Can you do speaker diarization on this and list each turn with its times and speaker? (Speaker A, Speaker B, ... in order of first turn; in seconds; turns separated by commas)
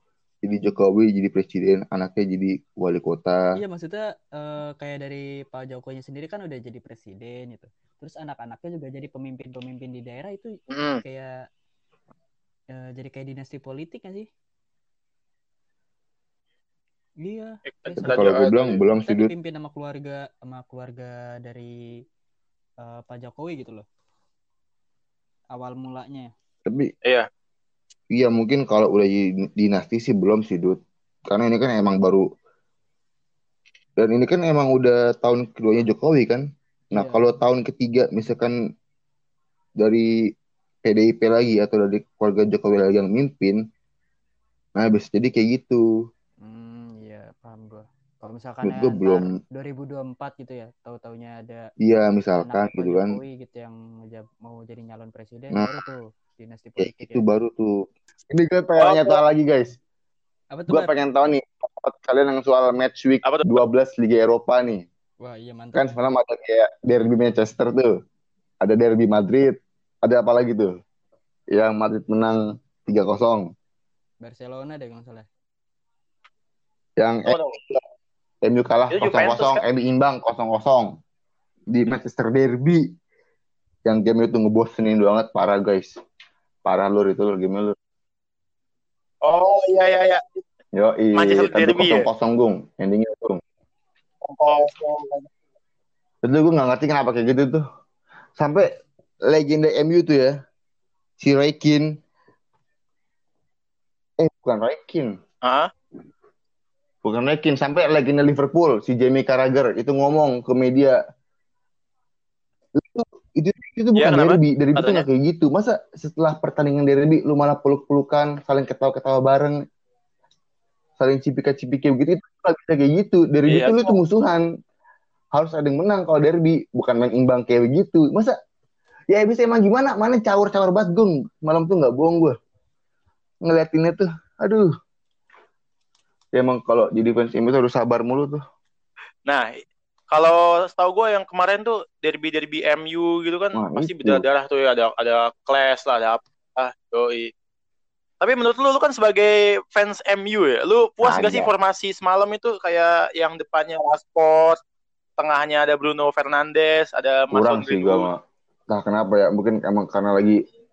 Speaker A: 0.4-3.5, Speaker B: 3.6-11.4, Speaker C: 10.7-11.0, Speaker B: 12.7-14.3, Speaker B: 17.2-18.4, Speaker C: 17.7-18.8, Speaker A: 18.0-19.3, Speaker B: 19.1-21.8, Speaker B: 22.8-23.9, Speaker B: 25.5-26.3, Speaker A: 26.7-26.9, Speaker A: 28.1-32.2, Speaker A: 34.0-38.5, Speaker B: 36.9-37.3, Speaker A: 39.8-40.1, Speaker A: 40.9-43.6, Speaker A: 44.8-45.8, Speaker B: 46.4-51.7, Speaker A: 48.6-49.3, Speaker A: 51.8-53.2, Speaker B: 52.4-57.2, Speaker A: 55.5-55.8, Speaker A: 56.8-59.8, Speaker C: 58.8-59.2, Speaker B: 60.5-60.9, Speaker A: 60.7-64.9, Speaker C: 63.2-63.6, Speaker B: 65.2-65.8, Speaker A: 65.8-68.0, Speaker A: 68.6-70.7, Speaker A: 71.5-73.5, Speaker B: 74.2-75.3, Speaker A: 77.0-77.8, Speaker C: 77.3-77.6, Speaker A: 78.4-81.0, Speaker C: 78.9-79.6, Speaker A: 81.7-82.9, Speaker A: 83.9-86.0, Speaker A: 86.7-87.8, Speaker C: 89.2-90.4, Speaker A: 90.8-93.4, Speaker C: 91.1-92.1, Speaker C: 94.2-95.3, Speaker A: 96.2-97.6, Speaker A: 98.4-98.7, Speaker A: 99.3-100.3, Speaker A: 101.2-102.0, Speaker A: 104.2-105.2, Speaker C: 105.4-105.7, Speaker A: 107.0-111.0, Speaker A: 112.8-119.6, Speaker C: 114.0-115.0, Speaker A: 121.0-124.5, Speaker C: 123.5-124.0, Speaker A: 125.3-128.4, Speaker A: 129.1-132.3, Speaker A: 133.4-134.7, Speaker A: 136.3-138.4, Speaker C: 140.1-147.3, Speaker A: 143.6-144.2, Speaker C: 148.2-154.6, Speaker A: 151.0-151.5, Speaker C: 155.2-158.1, Speaker A: 157.3-158.2, Speaker A: 158.7-160.4